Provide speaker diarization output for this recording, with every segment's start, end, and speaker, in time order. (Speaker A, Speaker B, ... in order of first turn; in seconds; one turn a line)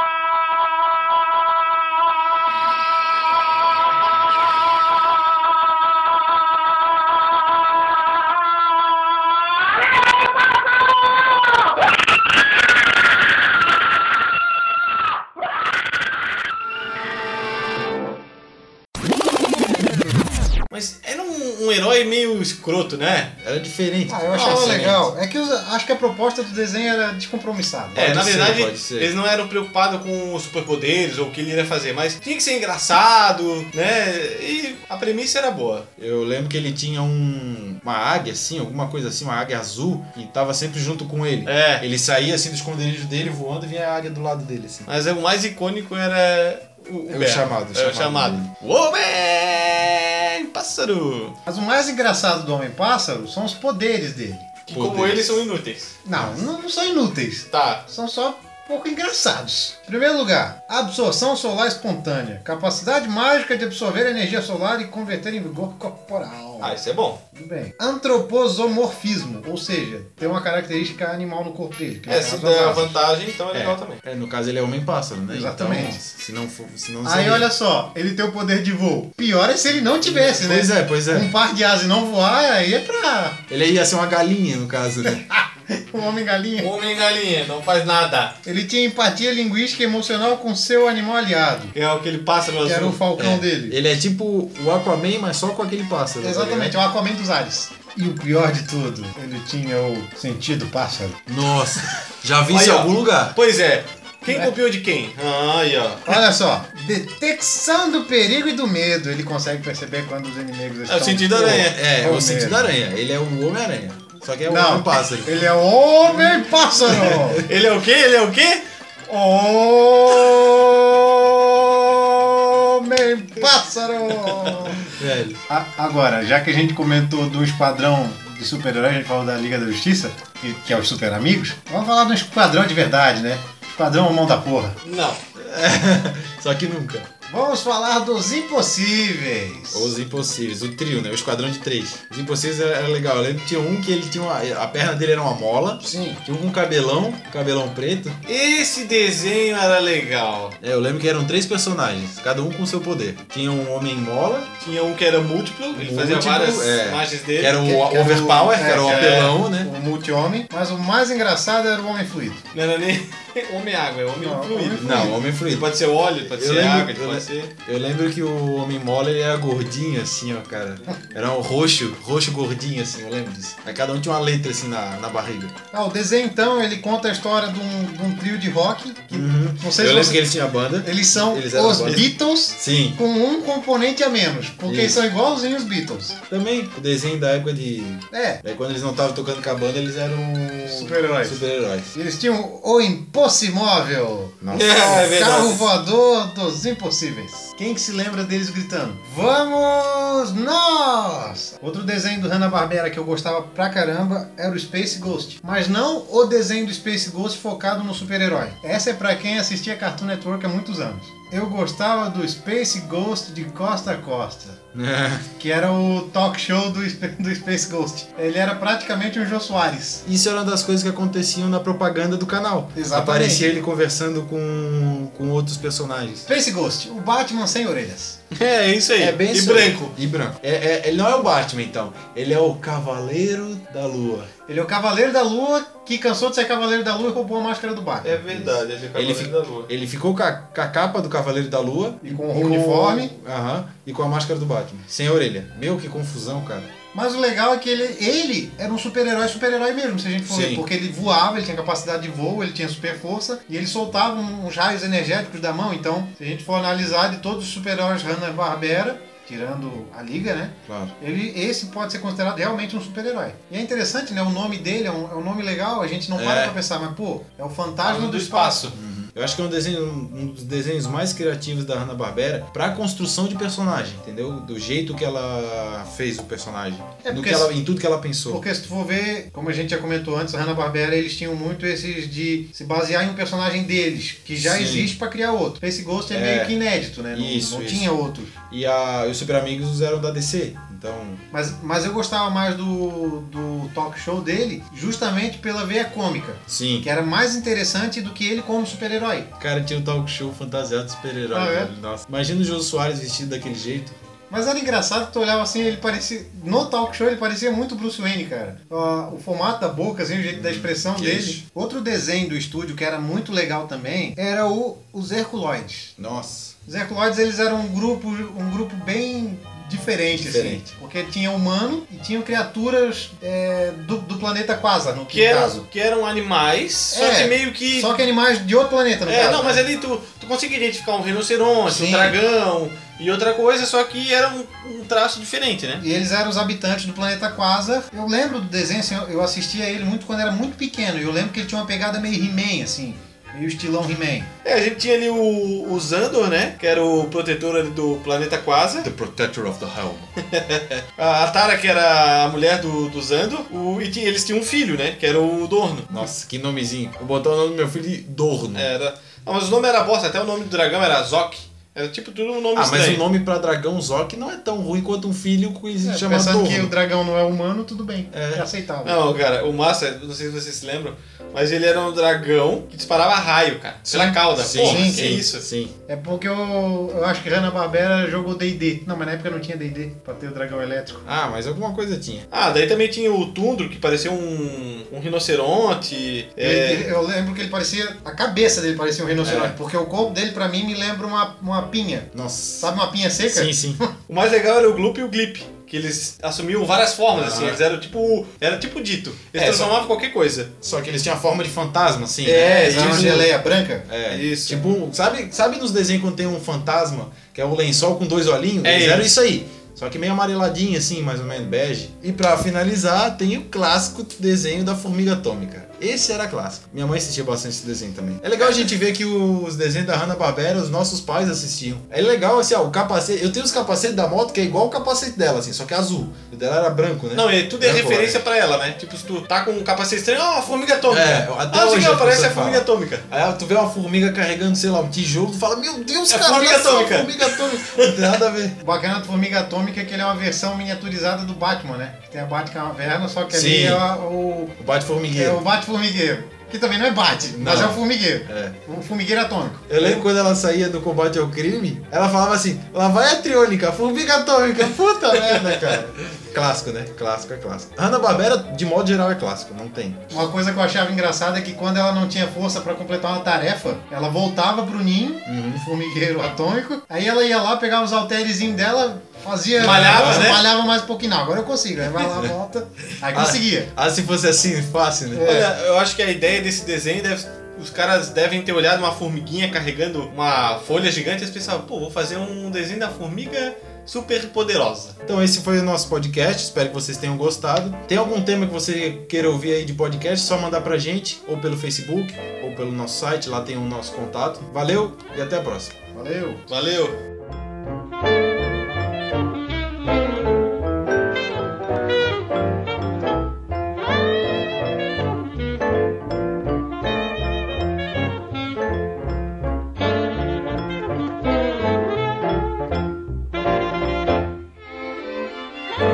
Speaker A: 20.7-23.3
Speaker B: 23.4-25.1
Speaker C: 24.1-28.1
Speaker A: 24.4-24.7
Speaker B: 27.9-29.1
Speaker A: 27.9-35.9
Speaker B: 36.0-44.9
Speaker A: 41.5-41.8
Speaker A: 44.9-51.4
Speaker B: 47.1-48.5
Speaker C: 51.5-54.5
Speaker A: 54.7-56.0
Speaker B: 54.7-55.4
Speaker C: 56.0-66.7
Speaker A: 57.5-57.8
Speaker A: 66.6-67.2
Speaker C: 67.3-73.0
Speaker A: 72.1-74.0
Speaker B: 73.5-77.5
Speaker C: 75.3-76.0
Speaker C: 77.0-83.4
Speaker B: 80.0-81.3
Speaker B: 83.5-85.2
Speaker C: 85.0-86.7
Speaker A: 86.6-88.3
Speaker C: 88.4-91.7
Speaker A: 91.7-93.0
Speaker C: 92.6-93.8
Speaker B: 93.2-96.8
Speaker C: 96.2-101.2
Speaker B: 101.3-103.4
Speaker A: 102.5-106.0
Speaker C: 106.0-112.7
Speaker A: 110.9-111.7
Speaker B: 111.4-115.3
Speaker C: 114.5-117.4
Speaker B: 116.9-117.5
Speaker A: 117.5-118.6
Speaker C: 119.1-124.9
Speaker B: 125.0-125.4
Speaker C: 125.5-134.8
Speaker A: 134.8-135.2
Speaker B: 135.4-137.1
Speaker C: 137.3-139.9
Speaker B: 139.7-148.2
Speaker C: 145.8-146.2
Speaker A: 148.3-150.6
Speaker B: 150.6-154.5
Speaker A: 154.6-157.6
Speaker B: 155.7-159.7
Speaker C: 157.6-162.4
Speaker A: 158.6-159.3
Speaker A: 162.5-167.5
Speaker C: 164.2-165.2
Speaker B: 164.8-175.5
Speaker C: 175.7-180.2
Speaker B: 179.1-183.0
Speaker C: 180.8-186.2
Speaker B: 184.7-185.0
Speaker B: 186.3-191.9
Speaker C: 188.1-188.4
Speaker C: 190.6-214.6
Speaker B: 194.4-195.1
Speaker A: 194.5-195.7
Speaker B: 214.7-215.3
Speaker C: 215.4-220.0
Speaker B: 220.0-226.3
Speaker C: 222.7-223.5
Speaker C: 226.3-228.2
Speaker A: 228.3-229.9
Speaker B: 229.0-234.3
Speaker C: 234.5-238.2
Speaker A: 238.0-239.7
Speaker B: 238.2-246.7
Speaker C: 242.0-243.1
Speaker C: 246.9-268.7
Speaker B: 250.2-250.6
Speaker B: 260.7-260.9
Speaker B: 266.1-266.6
Speaker A: 267.9-268.7
Speaker B: 268.7-278.4
Speaker C: 277.0-277.5
Speaker C: 278.3-288.3
Speaker B: 284.4-284.9
Speaker B: 286.1-286.6
Speaker B: 287.1-287.9
Speaker B: 288.5-291.2
Speaker C: 291.3-299.3
Speaker B: 296.5-296.9
Speaker B: 299.4-304.0
Speaker C: 301.3-301.7
Speaker C: 304.3-315.9
Speaker B: 310.3-311.4
Speaker B: 316.0-316.5
Speaker C: 316.6-325.6
Speaker B: 320.1-320.6
Speaker A: 325.1-328.0
Speaker C: 326.9-329.6
Speaker A: 329.1-335.8
Speaker B: 331.7-332.2
Speaker C: 335.8-344.3
Speaker A: 344.4-348.9
Speaker B: 348.8-350.1
Speaker A: 350.2-355.9
Speaker B: 355.9-358.7
Speaker A: 358.5-363.0
Speaker B: 362.5-366.7
Speaker C: 365.8-369.0
Speaker B: 368.1-368.4
Speaker A: 368.8-375.4
Speaker C: 373.9-375.1
Speaker B: 374.4-375.7
Speaker C: 375.9-381.0
Speaker B: 381.0-382.3
Speaker A: 382.3-386.9
Speaker C: 386.4-393.9
Speaker B: 389.2-389.5
Speaker B: 392.1-392.7
Speaker B: 393.2-393.8
Speaker A: 394.1-400.5
Speaker B: 397.1-397.6
Speaker B: 399.3-399.7
Speaker B: 400.6-403.3
Speaker A: 402.2-403.3
Speaker C: 402.2-403.9
Speaker B: 403.9-428.2
Speaker A: 404.1-404.6
Speaker A: 408.6-409.1
Speaker A: 418.4-418.7
Speaker A: 427.1-433.0
Speaker B: 430.9-438.6
Speaker A: 436.1-438.2
Speaker C: 438.6-444.5
Speaker B: 443.3-443.9
Speaker B: 444.6-445.4
Speaker C: 445.1-449.7
Speaker B: 447.4-448.6
Speaker B: 449.7-460.0
Speaker C: 460.1-473.7
Speaker B: 465.2-465.6
Speaker B: 469.6-470.4
Speaker A: 469.6-470.5
Speaker B: 473.1-475.5
Speaker C: 475.1-475.4
Speaker A: 475.2-485.0
Speaker B: 485.1-495.8
Speaker C: 495.9-496.4
Speaker A: 496.5-496.9